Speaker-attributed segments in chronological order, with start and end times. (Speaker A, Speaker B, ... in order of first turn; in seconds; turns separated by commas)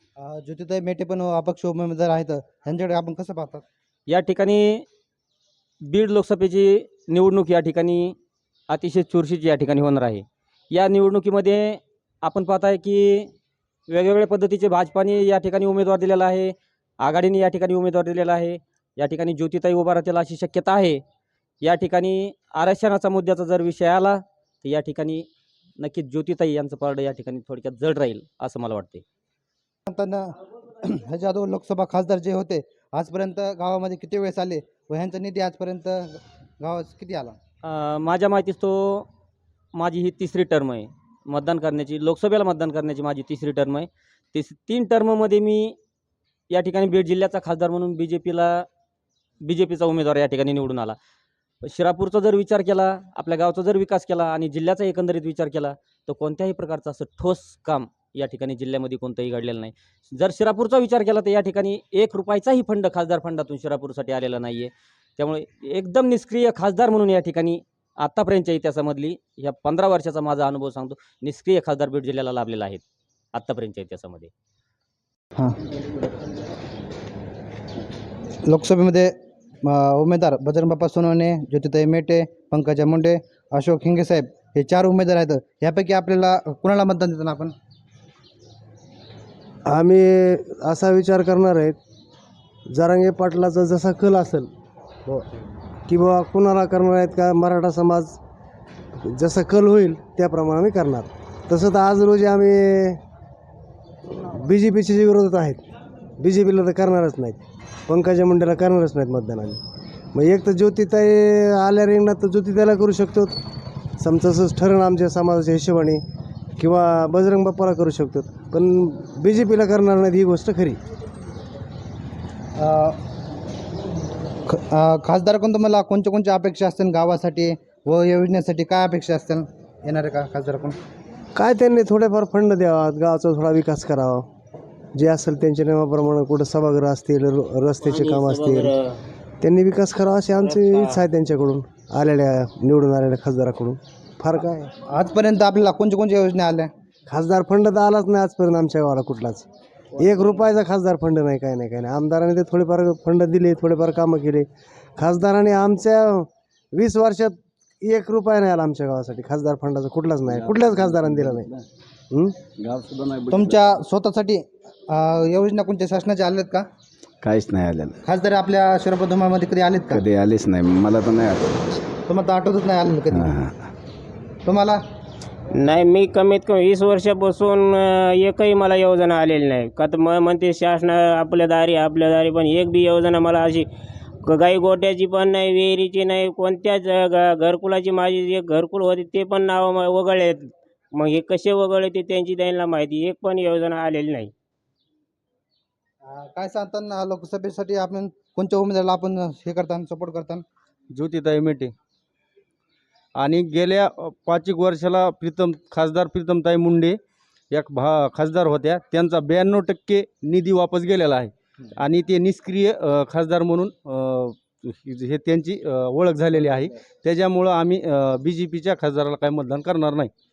Speaker A: 0.2-3.6, Speaker B: 4.1-4.9, Speaker B: 5.8-8.2, Speaker B: 8.7-13.3, Speaker B: 13.9-21.0, Speaker B: 21.6-25.3, Speaker B: 25.8-29.0, Speaker A: 29.9-37.4, Speaker B: 37.6-39.1, Speaker B: 39.8-45.8, Speaker B: 46.5-48.7, Speaker B: 49.4-51.0, Speaker B: 51.6-72.8, Speaker B: 73.3-74.3, Speaker A: 78.5-87.5, Speaker C: 89.7-91.8, Speaker C: 92.7-94.5, Speaker C: 95.9-98.2, Speaker C: 98.9-103.0, Speaker C: 104.1-105.6, Speaker C: 106.2-109.6, Speaker C: 110.1-113.4, Speaker C: 114.0-116.0, Speaker C: 116.6-120.8, Speaker A: 122.6-123.0, Speaker A: 124.5-130.8, Speaker C: 131.3-134.3, Speaker C: 134.9-138.7, Speaker D: 137.8-139.0, Speaker C: 139.4-144.7, Speaker D: 140.4-141.0, Speaker A: 144.9-146.7, Speaker C: 147.1-161.5, Speaker E: 160.3-161.5, Speaker C: 162.1-162.4, Speaker E: 162.6-163.6, Speaker A: 163.3-166.6, Speaker E: 167.2-168.0, Speaker A: 168.0-170.0, Speaker E: 169.9-171.6, Speaker A: 172.1-173.3, Speaker E: 173.1-173.7, Speaker A: 174.4-174.8, Speaker D: 175.5-183.7, Speaker D: 184.2-194.3, Speaker A: 196.0-200.4, Speaker F: 200.9-201.7, Speaker F: 203.2-207.0, Speaker F: 207.5-220.1